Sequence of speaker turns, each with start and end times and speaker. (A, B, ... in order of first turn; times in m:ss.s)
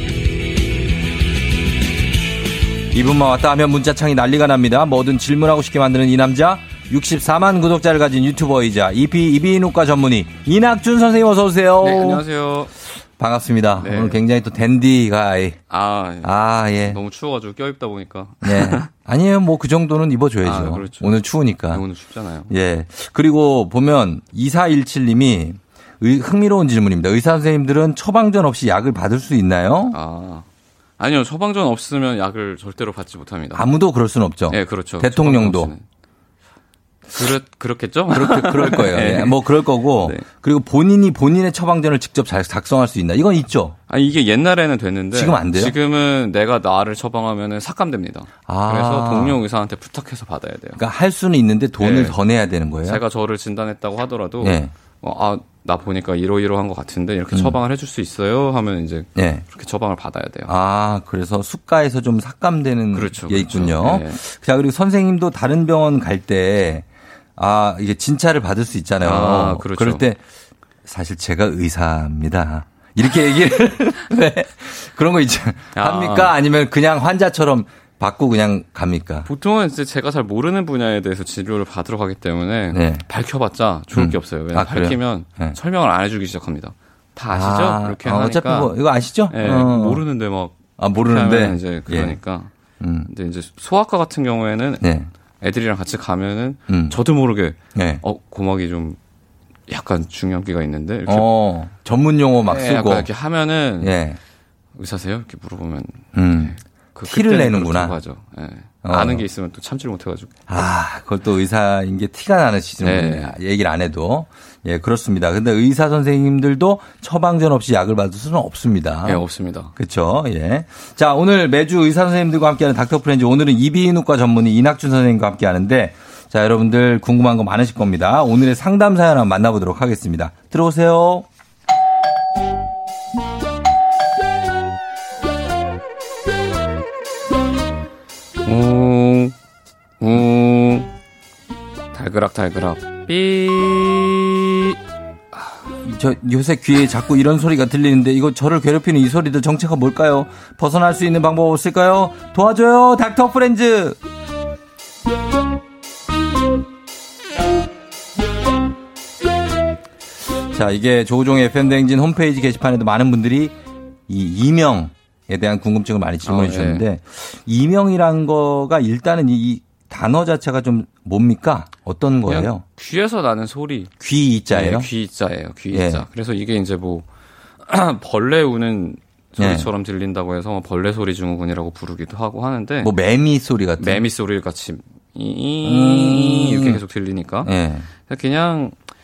0:02.9-0:12.2 A
0:11.8-0:12.7 B
0:13.2-0:15.6 A
0:13.8-0:14.2 B
0:15.7-0:18.9 B
0:16.2-0:17.0 A
0:18.4-0:21.8 A
0:20.4-0:21.2 B
0:21.7-0:22.5 B
0:22.5-0:30.0 A
0:29.9-0:30.4 B
0:31.0-0:33.7 B
0:33.5-0:35.7 A
0:34.5-0:35.8 B
0:37.1-0:40.2 B
0:38.1-0:43.8 A
0:43.9-0:50.8 B
0:45.1-0:45.8 A
0:48.5-0:49.4 A
0:50.8-0:53.0 A
0:51.8-0:52.2 B
0:52.8-1:00.5 B
0:54.4-0:54.7 A
0:57.3-0:57.6 A
0:59.2-0:59.4 A
1:00.5-1:10.2 A
1:02.9-1:04.2 B
1:09.0-1:10.0 B
1:10.8-1:19.3 A
1:15.8-1:16.3 B
1:19.2-1:28.7 B
1:22.7-1:23.0 A
1:23.9-1:25.6 A
1:27.3-1:30.0 A
1:29.3-1:32.5 B
1:30.8-1:32.2 A
1:32.8-1:33.1 A
1:33.1-1:39.0 B
1:34.8-1:35.1 A
1:36.7-1:37.0 A
1:37.8-1:38.0 A
1:39.7-1:41.3 B
1:41.1-1:43.1 A
1:42.4-1:44.0 B
1:43.8-1:44.2 A
1:44.8-1:50.7 B
1:46.1-1:48.0 A
1:48.8-1:49.3 A
1:50.5-1:59.2 A
1:52.8-1:53.4 B
1:59.0-1:59.7 B
1:59.8-2:11.2 A
2:18.4-2:19.4 B
2:20.0-2:20.9 B
2:21.9-2:24.8 B
2:25.8-2:34.0 A
2:40.5-2:43.6 A
2:44.1-2:52.6 A
2:46.2-2:46.9 B
2:52.2-2:53.9 B
2:54.0-2:54.9 A
2:54.5-2:57.1 B
2:55.7-2:56.0 A
2:57.6-3:02.9 B
2:59.4-2:59.7 A
3:02.8-3:04.0 A
3:03.8-3:07.5 B
3:05.6-3:06.8 A
3:07.4-3:07.9 A
3:08.0-3:08.8 B